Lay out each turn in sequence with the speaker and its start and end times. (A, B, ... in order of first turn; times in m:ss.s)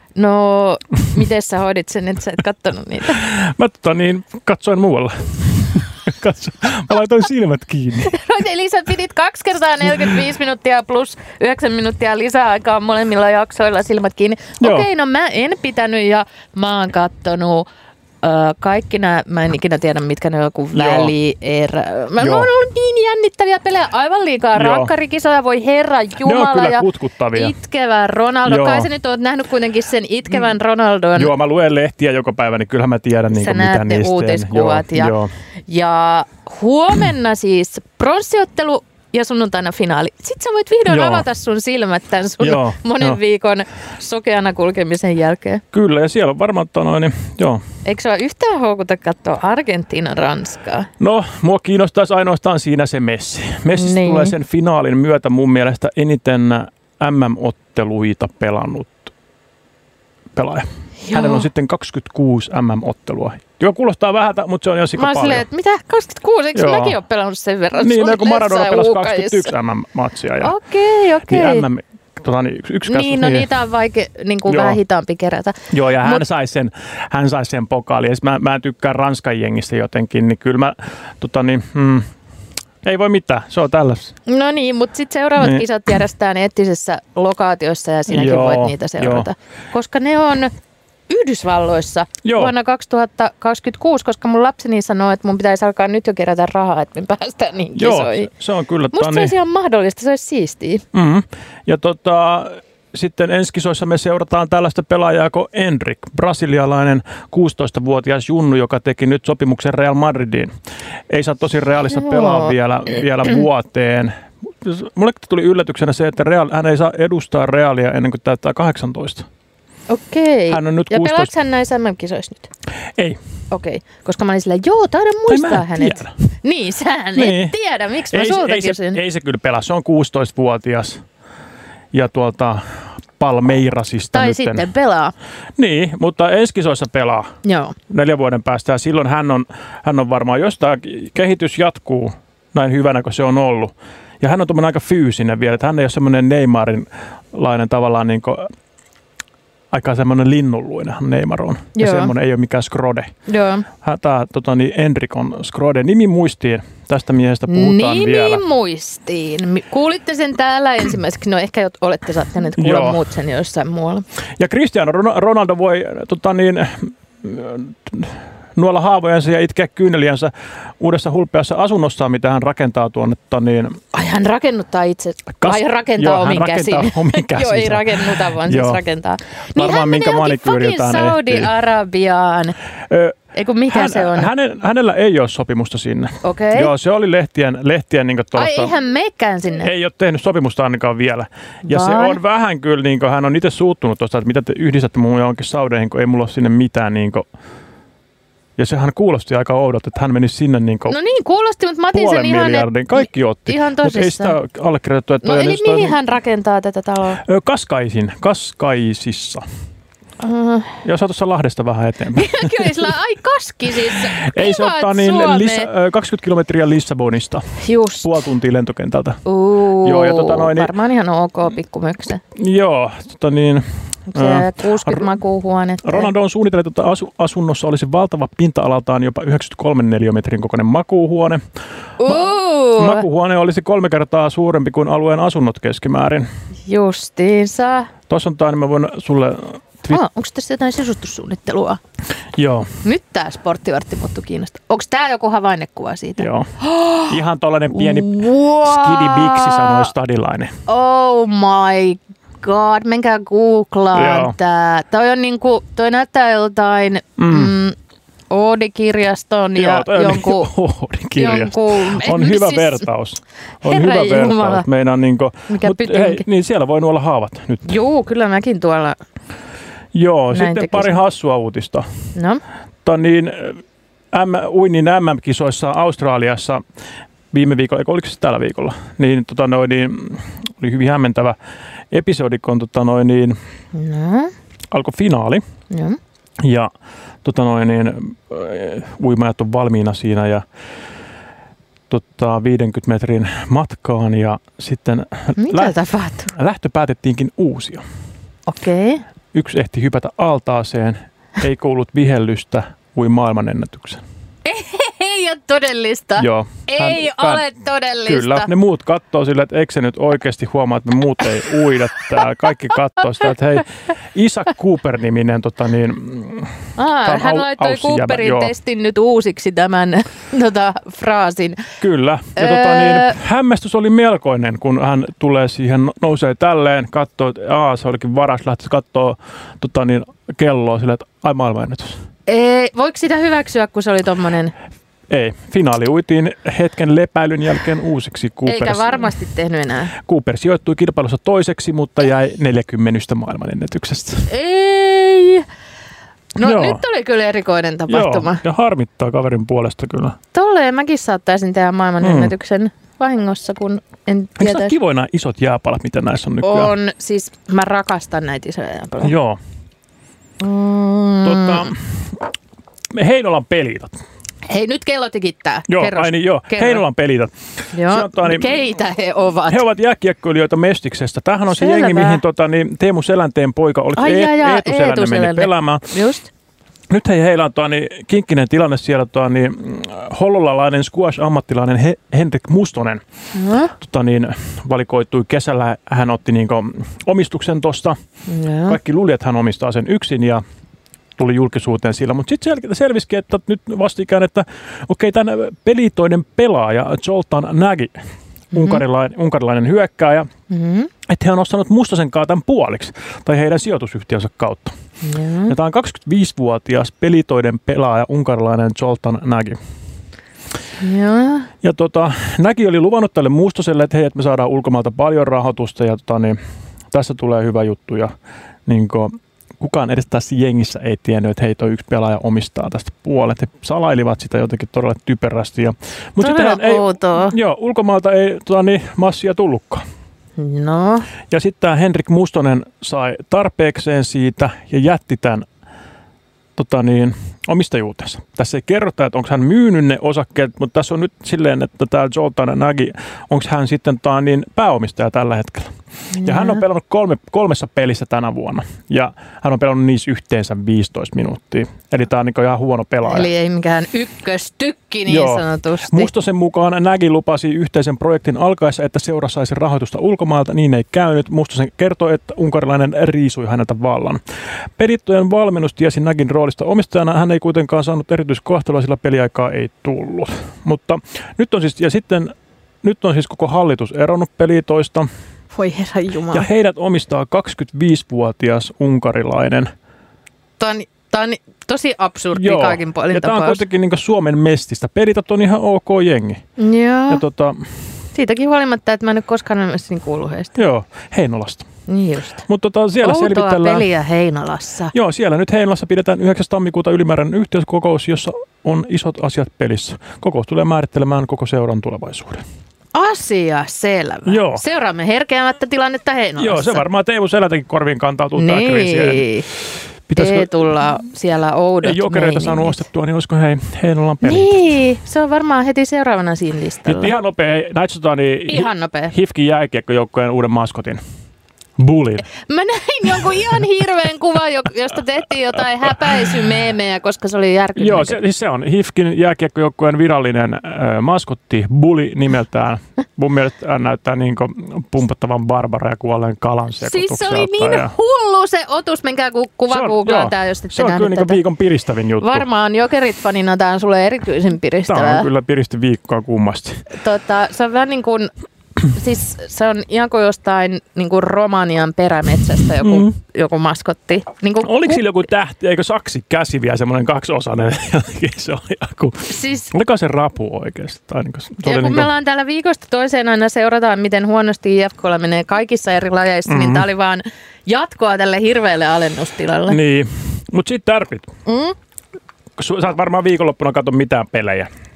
0:00.2-0:03.2 A
0:03.1-0:08.1 B
0:08.0-0:17.7 A
0:14.6-0:14.9 B
0:18.2-0:31.3 A
0:20.7-0:21.1 B
0:22.2-0:22.5 B
0:24.5-0:24.9 B
0:26.2-0:27.5 B
0:28.4-0:28.9 B
0:31.1-0:35.3 B
0:33.3-0:35.1 A
0:35.7-0:45.6 A
0:40.9-0:41.2 B
0:42.4-0:43.2 B
0:45.7-0:47.6 B
0:47.8-0:50.9 A
0:51.0-0:59.1 B
0:53.7-0:54.3 A
1:00.3-1:05.4 B
1:01.0-1:01.4 A
1:05.0-1:09.5 A
1:06.5-1:07.0 B
1:07.8-1:10.5 B
1:10.4-1:11.6 A
1:11.3-1:13.5 B
1:12.8-1:16.2 A
1:14.5-1:14.8 B
1:15.7-1:22.1 B
1:22.8-1:24.1 B
1:24.2-1:30.5 A
1:25.4-1:25.6 B
1:28.1-1:29.3 B
1:31.1-1:38.3 A
1:32.2-1:32.5 B
1:37.8-1:39.3 B
1:38.9-1:40.8 A
1:40.9-1:50.5 B
1:51.1-1:59.3 B
1:51.9-1:52.5 A
1:59.9-2:02.5 A
2:00.5-2:01.3 B
2:03.5-2:09.0 A
2:05.3-2:06.1 B
2:07.1-2:07.5 B
2:08.1-2:11.0 B
2:11.9-2:14.7 B
2:14.1-2:15.1 A
2:15.6-2:17.4 B
2:17.4-2:17.8 A
2:17.9-2:28.5 B
2:29.7-2:33.1 B
2:31.8-2:32.1 A
2:33.3-2:33.7 A
2:33.8-2:38.4 B
2:37.5-2:44.0 A
2:42.6-2:43.0 B
2:44.4-2:53.8 B
2:53.9-3:02.6 A
2:55.4-2:58.8 B
2:59.5-3:01.5 B
3:02.9-3:08.7 B
3:03.3-3:04.3 A
3:06.2-3:06.7 A
3:08.3-3:09.7 A
3:09.6-3:17.2 B
3:11.6-3:12.2 A
3:18.6-3:21.0 B
3:20.9-3:24.4 A
3:21.9-3:26.0 B
3:25.2-3:27.2 A
3:27.2-3:29.4 B
3:30.2-3:30.8 A
3:30.8-3:32.9 B
3:32.1-3:35.7 A
3:33.9-3:39.2 B
3:37.6-3:38.2 A
3:39.2-3:42.2 A
3:39.8-3:40.7 B
3:42.3-3:45.1 B
3:44.1-3:46.1 A
3:45.8-3:51.4 B
3:52.0-3:53.0 A
3:52.0-3:56.3 B
3:56.7-3:57.9 A
3:58.1-4:00.0 B
3:59.9-4:01.8 A
4:02.3-4:02.7 B
4:02.8-4:07.2 A
4:06.2-4:06.5 B
4:07.1-4:10.5 B
4:07.7-4:09.9 A
4:10.7-4:17.8 A
4:13.9-4:14.3 B
4:17.2-4:17.6 B
4:18.3-4:20.5 A
4:19.5-4:27.8 B
4:21.2-4:22.8 A
4:23.6-4:24.6 A
4:25.5-4:26.2 A
4:27.7-4:29.0 A
4:29.9-4:31.8 B
4:30.3-4:31.0 A
4:32.1-4:32.4 A
4:32.8-4:36.6 B
4:37.3-4:41.4 B
4:41.9-4:43.4 B
4:43.7-4:44.3 A
4:44.7-4:45.4 B
4:45.7-4:46.0 A
4:46.4-4:46.7 B
4:47.2-4:50.4 B
4:51.9-4:55.7 B
4:55.4-4:56.3 A
4:56.3-4:57.8 B
4:58.5-4:59.0 A
4:59.3-5:04.0 B
5:04.4-5:08.5 A
5:06.2-5:07.4 B
5:08.1-5:18.5 B
5:16.8-5:21.6 A
5:21.8-5:32.0 B
5:22.4-5:23.2 A
5:32.3-5:34.5 A
5:35.1-5:39.1 B
5:38.5-5:39.9 A
5:40.0-5:44.3 B
5:44.3-5:45.4 A
5:46.4-5:48.4 A
5:46.4-5:46.8 B
5:47.9-5:50.2 B
5:50.3-5:54.7 A
5:52.0-5:52.3 B
5:54.4-5:56.7 B
5:56.4-5:59.1 A
5:59.0-5:59.4 B
6:00.4-6:01.7 A
6:01.2-6:02.0 B
6:02.9-6:04.0 B
6:04.5-6:06.8 A
6:05.7-6:08.6 B
6:07.7-6:09.6 A
6:09.5-6:15.9 B
6:11.5-6:12.2 A
6:14.0-6:16.3 A
6:16.9-6:23.0 B
6:23.3-6:23.7 A
6:23.7-6:28.0 B
6:28.3-6:28.8 A
6:28.6-6:30.4 B
6:31.2-6:38.0 B
6:38.5-6:38.8 A
6:38.5-6:40.3 B
6:40.5-6:40.9 A
6:41.1-6:44.8 B
6:45.0-6:45.5 A
6:45.5-6:49.6 B
6:50.8-6:51.5 A
6:51.6-6:56.4 B
6:56.9-6:58.1 B
6:58.6-7:09.8 B
7:06.2-7:07.3 A
7:10.4-7:11.1 A
7:11.3-7:15.5 B
7:16.6-7:33.3 B
7:26.1-7:26.6 A
7:33.0-7:36.1 A
7:35.1-7:44.2 B
7:44.8-7:55.1 B
7:55.5-7:56.5 A
7:56.3-7:59.7 B
8:00.6-8:03.6 A
8:02.3-8:06.4 B
8:06.6-8:07.2 A
8:07.1-8:07.7 B
8:08.1-8:10.5 A
8:10.6-8:11.7 B
8:11.9-8:12.4 A
8:12.5-8:13.8 B
8:13.0-8:14.9 A
8:14.9-8:22.4 B
8:22.9-8:26.8 A
8:24.2-8:24.6 B
8:26.4-8:29.3 B
8:28.4-8:29.4 A
8:30.1-8:30.8 B
8:30.1-8:32.8 A
8:31.8-8:34.6 B
8:34.2-8:37.1 A
8:36.8-8:41.0 B
8:38.5-8:39.1 A
8:41.8-8:42.2 B
8:42.2-8:48.2 A
8:47.8-8:57.9 B
8:56.8-9:01.4 A
8:59.7-9:02.5 B
9:02.2-9:05.3 A
9:04.9-9:06.8 B
9:06.9-9:08.3 A
9:08.9-9:15.0 A
9:12.6-9:13.1 B
9:14.6-9:22.1 B
9:19.3-9:19.7 A
9:21.6-9:29.8 A
9:26.5-9:26.9 B
9:29.7-9:31.3 B
9:31.4-9:31.8 A
9:32.6-9:34.7 B